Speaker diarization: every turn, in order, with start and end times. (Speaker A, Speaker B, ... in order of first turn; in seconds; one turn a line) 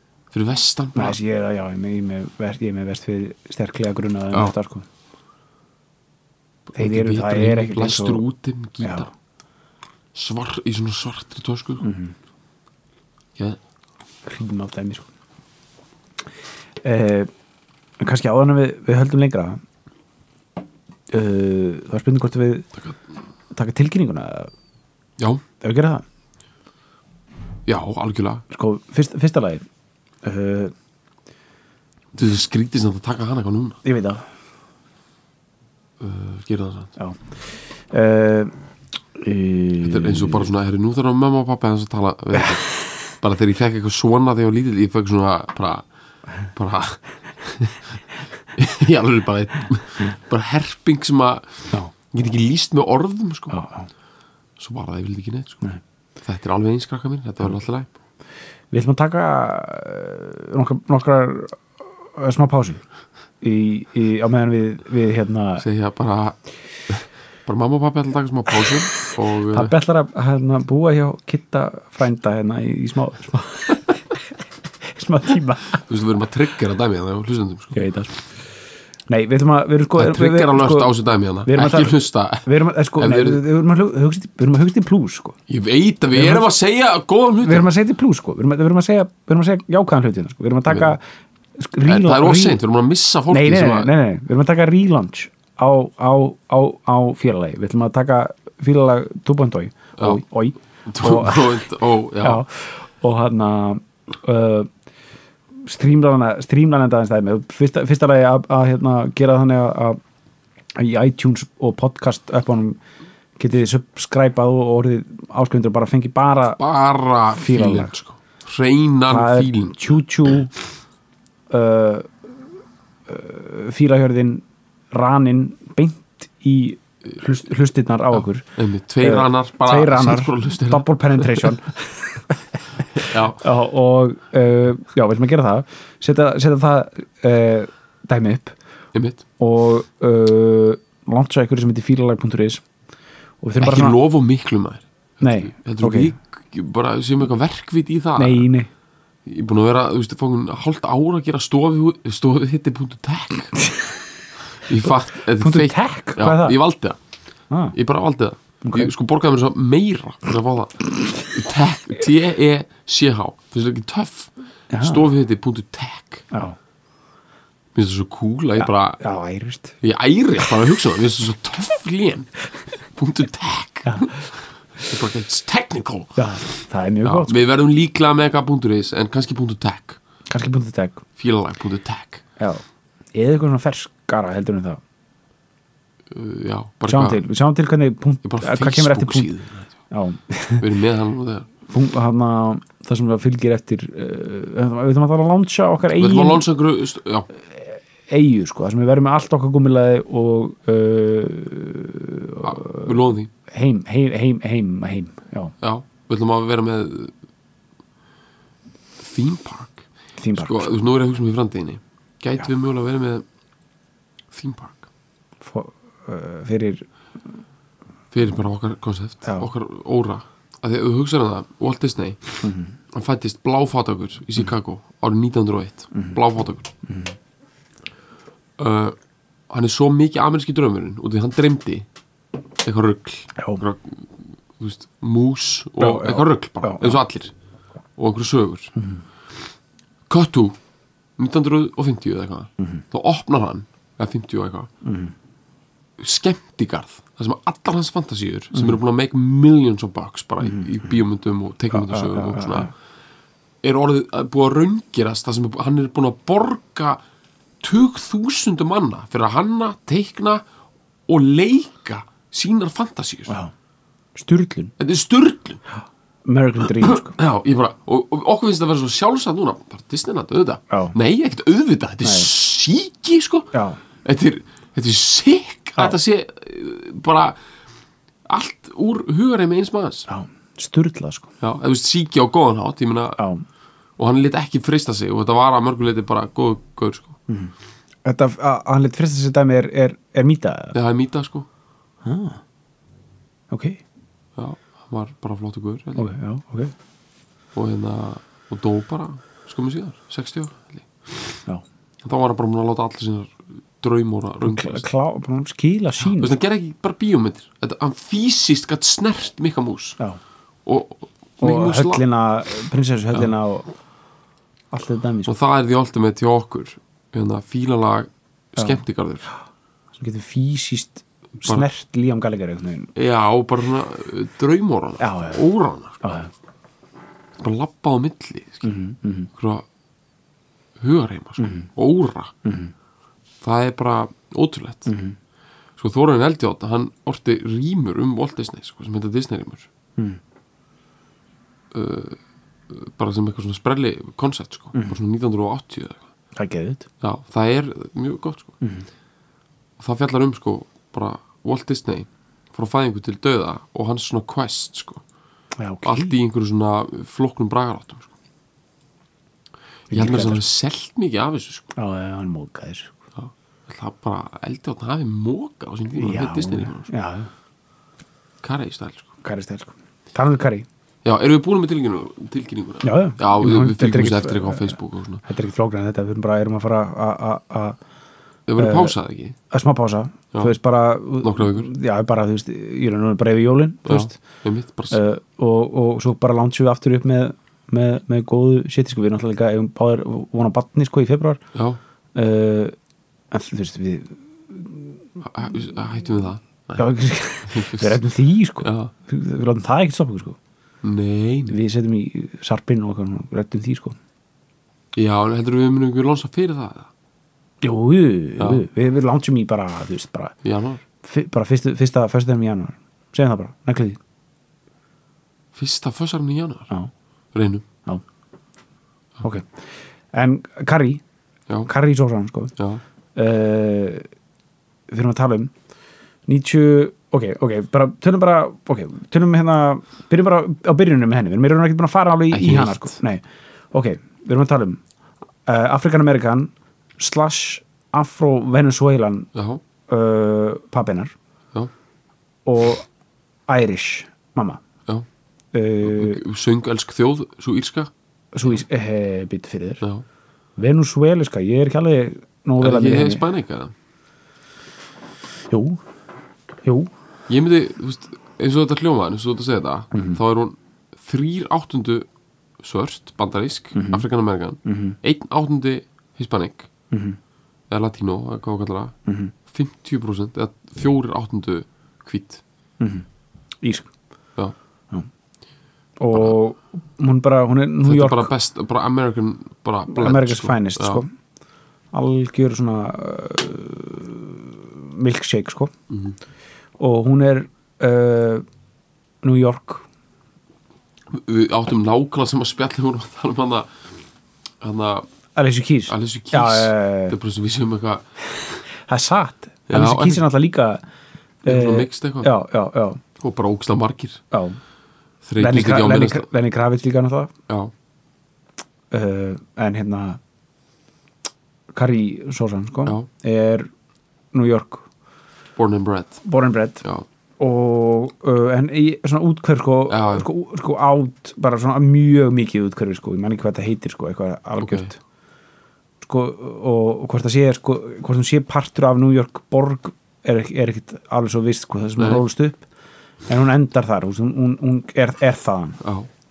Speaker A: 0.3-1.2
Speaker B: 0.9-4.9
Speaker A: 6.7-9.1
Speaker B: 6.8-8.2
Speaker B: 8.8-9.1
Speaker A: 10.1-11.8
Speaker B: 11.8-12.1
Speaker B: 14.2-15.1
Speaker B: 16.8-17.3
Speaker B: 18.0-19.6
Speaker B: 21.1-22.7
Speaker B: 23.5-24.5
Speaker A: 25.2-25.4
Speaker B: 25.6-26.1
Speaker A: 27.7-28.4
Speaker B: 28.5-29.6
Speaker B: 30.2-30.7
Speaker A: 32.1-33.8
Speaker B: 33.8-34.2
Speaker A: 36.0-36.9
Speaker B: 37.0-38.5
Speaker B: 39.2-40.5
Speaker A: 39.8-45.9
Speaker A: 46.5-48.0
Speaker A: 48.5-53.6
Speaker B: 53.5-53.9
Speaker A: 54.6-55.6
Speaker A: 56.2-57.9
Speaker B: 58.7-62.8
Speaker B: 63.4-65.7
Speaker A: 65.6-66.4
Speaker A: 66.9-69.7
Speaker B: 69.5-74.0
Speaker B: 74.9-75.8
Speaker A: 75.8-77.8
Speaker B: 77.7-78.2
Speaker B: 79.1-80.9
Speaker A: 80.0-83.4
Speaker B: 81.5-85.4
Speaker A: 85.5-87.7
Speaker B: 86.1-86.5
Speaker B: 87.4-91.0
Speaker B: 91.6-92.6
Speaker A: 91.8-93.9
Speaker B: 93.3-101.7
Speaker A: 100.9-102.4
Speaker B: 102.2-104.7
Speaker B: 105.6-110.0
Speaker B: 110.8-112.8
Speaker B: 113.4-116.6
Speaker A: 116.6-119.8
Speaker B: 117.3-117.9
Speaker B: 119.1-120.5
Speaker B: 121.5-122.1
Speaker B: 123.1-128.5
Speaker A: 128.6-131.6
Speaker B: 129.0-138.6
Speaker A: 133.0-133.4
Speaker A: 138.9-139.2
Speaker B: 139.4-142.6
Speaker B: 143.4-144.0
Speaker A: 143.6-148.5
Speaker B: 145.2-146.1
Speaker B: 148.2-148.7
Speaker A: 149.3-153.6
Speaker A: 154.6-157.0
Speaker B: 155.2-156.6
Speaker A: 157.7-166.2
Speaker B: 158.6-158.9
Speaker B: 164.7-165.1
Speaker B: 166.3-166.6
Speaker A: 167.8-169.0
Speaker B: 168.6-169.8
Speaker A: 169.8-172.3
Speaker A: 172.9-176.3
Speaker B: 176.2-177.4
Speaker A: 177.0-180.0
Speaker B: 180.3-181.0
Speaker A: 181.2-182.2
Speaker B: 183.1-184.8
Speaker A: 186.1-187.2
Speaker B: 186.9-189.3
Speaker A: 188.2-189.7
Speaker B: 189.9-190.7
Speaker A: 190.6-191.5
Speaker B: 191.7-196.4
Speaker A: 195.9-197.3
Speaker B: 197.4-205.5
Speaker A: 202.4-203.3
Speaker A: 205.6-207.1
Speaker A: 209.0-213.2
Speaker B: 210.2-210.8
Speaker A: 214.3-214.9
Speaker B: 215.4-216.8
Speaker A: 218.1-226.7
Speaker B: 219.2-219.5
Speaker B: 222.4-222.7
Speaker B: 226.9-227.1
Speaker A: 228.6-229.0
Speaker A: 229.5-231.9
Speaker A: 232.6-237.3
Speaker B: 233.4-233.6
Speaker B: 235.8-237.0
Speaker A: 238.0-238.7
Speaker B: 238.8-239.0
Speaker A: 240.1-240.6
Speaker A: 241.2-244.7
Speaker B: 244.8-245.1
Speaker A: 246.0-252.7
Speaker B: 250.4-250.9
Speaker B: 251.7-252.7
Speaker A: 253.6-257.0
Speaker A: 257.6-260.4
Speaker A: 261.1-263.3
Speaker B: 264.2-264.7
Speaker A: 264.8-265.6
Speaker B: 266.2-267.2
Speaker A: 266.8-273.5
Speaker B: 270.7-270.9
Speaker B: 272.0-272.3
Speaker B: 273.5-273.8
Speaker A: 274.0-277.4
Speaker A: 278.3-280.1
Speaker B: 280.1-281.3
Speaker A: 281.4-283.2
Speaker B: 283.2-283.4
Speaker A: 284.0-287.2
Speaker B: 287.3-287.5
Speaker B: 288.1-290.8
Speaker A: 290.7-291.5
Speaker B: 292.0-292.4
Speaker B: 293.5-293.8
Speaker A: 294.4-296.1
Speaker B: 296.0-296.7
Speaker A: 297.6-301.4
Speaker A: 302.0-304.9
Speaker B: 304.4-306.4
Speaker A: 306.1-310.0
Speaker A: 310.6-312.0
Speaker B: 311.4-313.7
Speaker B: 314.7-315.3
Speaker A: 315.3-319.3
Speaker B: 320.0-322.9
Speaker A: 323.0-326.0
Speaker B: 325.0-325.4
Speaker B: 326.0-326.3
Speaker A: 327.4-328.7
Speaker B: 328.6-329.3
Speaker A: 329.3-329.6
Speaker A: 330.8-332.3
Speaker B: 331.4-331.7
Speaker B: 332.4-332.7
Speaker A: 333.4-334.9
Speaker B: 334.9-335.2
Speaker A: 335.8-339.7
Speaker A: 341.7-346.1
Speaker B: 346.4-346.9
Speaker A: 347.0-348.6
Speaker B: 348.6-348.9
Speaker A: 349.8-355.0
Speaker B: 355.6-356.1
Speaker A: 355.8-358.1
Speaker B: 359.9-360.4
Speaker A: 359.9-361.7
Speaker B: 361.8-363.0
Speaker A: 363.1-366.9
Speaker B: 366.0-367.3
Speaker A: 368.4-369.1
Speaker B: 369.2-370.7
Speaker A: 371.0-375.2
Speaker B: 372.8-377.8
Speaker A: 378.5-379.4
Speaker B: 378.6-378.9
Speaker B: 379.5-384.2
Speaker A: 381.2-381.7
Speaker A: 383.9-385.0
Speaker B: 384.9-391.4
Speaker A: 391.5-391.8
Speaker B: 392.1-392.8
Speaker B: 393.3-394.9
Speaker A: 395.2-396.9
Speaker B: 396.8-400.4
Speaker A: 397.5-398.0
Speaker A: 398.6-398.9
Speaker A: 400.8-401.6
Speaker B: 401.5-404.0
Speaker A: 404.9-406.9
Speaker B: 407.6-410.3
Speaker A: 408.4-408.6
Speaker A: 410.4-410.8
Speaker B: 411.0-414.0
Speaker A: 415.5-416.7
Speaker A: 417.3-417.6
Speaker B: 419.2-421.0
Speaker B: 421.6-422.6
Speaker A: 422.6-422.8
Speaker B: 423.1-424.1
Speaker B: 424.9-425.5
Speaker B: 426.3-434.8
Speaker A: 432.3-433.0
Speaker B: 435.5-439.3
Speaker A: 439.3-439.6
Speaker B: 439.9-441.1
Speaker B: 442.5-442.9
Speaker B: 443.5-444.6
Speaker B: 445.5-446.2
Speaker A: 445.8-447.9
Speaker B: 448.3-449.8
Speaker B: 450.6-453.3
Speaker A: 452.6-453.7
Speaker B: 455.5-455.8
Speaker B: 456.6-456.9
Speaker A: 457.3-462.1
Speaker B: 459.9-460.2
Speaker A: 462.6-466.7
Speaker B: 463.7-464.1
Speaker B: 464.6-465.0
Speaker B: 466.9-467.2
Speaker A: 467.7-468.9
Speaker B: 469.1-469.3
Speaker A: 469.5-472.4
Speaker B: 472.8-473.1
Speaker B: 473.6-473.9
Speaker B: 476.0-478.3
Speaker A: 477.8-481.0
Speaker B: 479.9-481.1
Speaker B: 481.9-485.7
Speaker A: 485.9-486.2
Speaker B: 486.8-488.4
Speaker B: 489.2-489.9
Speaker A: 491.1-493.7
Speaker A: 494.6-495.1
Speaker B: 495.4-497.2
Speaker A: 495.9-498.1
Speaker B: 498.7-500.8
Speaker A: 499.7-500.2
Speaker B: 501.4-503.0
Speaker A: 501.4-502.3
Speaker A: 503.2-504.2
Speaker B: 504.3-504.6
Speaker A: 505.2-506.3
Speaker B: 505.4-507.3
Speaker B: 508.9-510.2
Speaker B: 511.7-513.7
Speaker B: 514.3-514.9
Speaker A: 515.6-516.2
Speaker B: 516.2-516.8
Speaker B: 517.4-525.0
Speaker A: 519.9-520.3
Speaker A: 524.6-524.9
Speaker B: 526.0-532.7
Speaker A: 532.0-532.2
Speaker B: 533.3-535.8
Speaker A: 535.8-536.1